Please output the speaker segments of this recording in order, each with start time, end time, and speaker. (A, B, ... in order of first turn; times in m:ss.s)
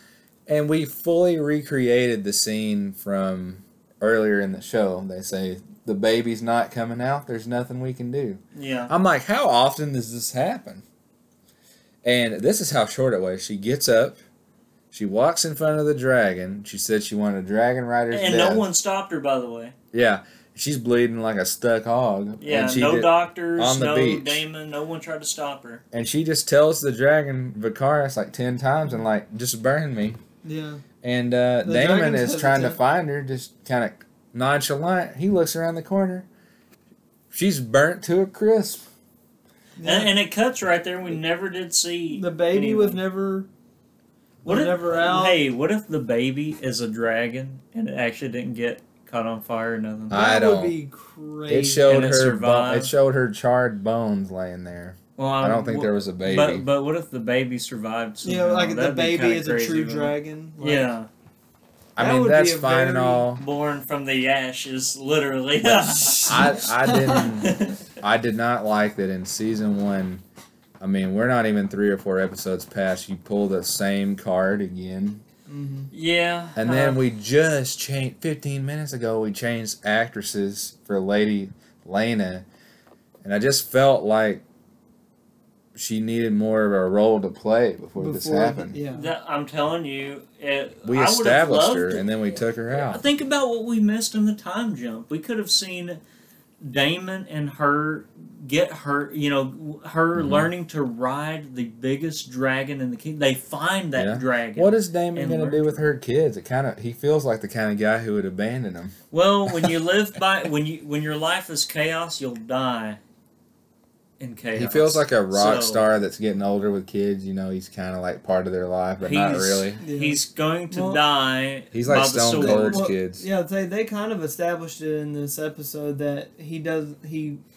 0:00.5-0:10.8 A
0:08.6-0:08.9 B
0:12.0-0:14.2 A
0:14.9-0:18.7 A
0:18.1-0:19.7 B
0:19.9-0:24.4 A
0:22.4-0:25.8 B
0:25.9-0:30.2 A
0:30.4-0:30.8 C
0:31.0-0:36.3 A
0:31.6-0:32.8 C
0:37.3-0:38.9 A
0:39.8-0:40.1 C
0:39.8-0:43.0 B
0:42.1-0:43.5 C
0:44.4-0:45.4 C
0:44.4-0:50.2 B
0:50.1-0:50.8 A
0:50.1-0:52.0 C
0:51.5-0:56.6 A
0:51.9-0:52.9 B
0:55.2-1:01.1 B
0:58.2-1:00.9 C
1:02.0-1:03.4 A
1:02.0-1:03.3 C
1:03.4-1:07.8 B
1:05.9-1:07.6 C
1:06.2-1:10.2 A
1:10.8-1:15.2 A
1:15.5-1:15.9 C
1:15.9-1:17.0 B
1:16.6-1:22.5 A
1:23.2-1:24.4 A
1:25.8-1:28.8 A
1:28.0-1:29.1 C
1:28.9-1:32.1 B
1:30.8-1:33.0 A
1:32.7-1:36.0 B
1:36.6-1:45.8 B
1:40.2-1:40.5 A
1:44.0-1:49.0 A
1:49.1-1:53.0 B
1:54.2-1:55.8 B
1:54.6-1:59.8 A
1:59.0-2:02.9 B
1:59.8-2:01.0 C
2:01.7-2:03.3 A
2:02.4-2:07.4 C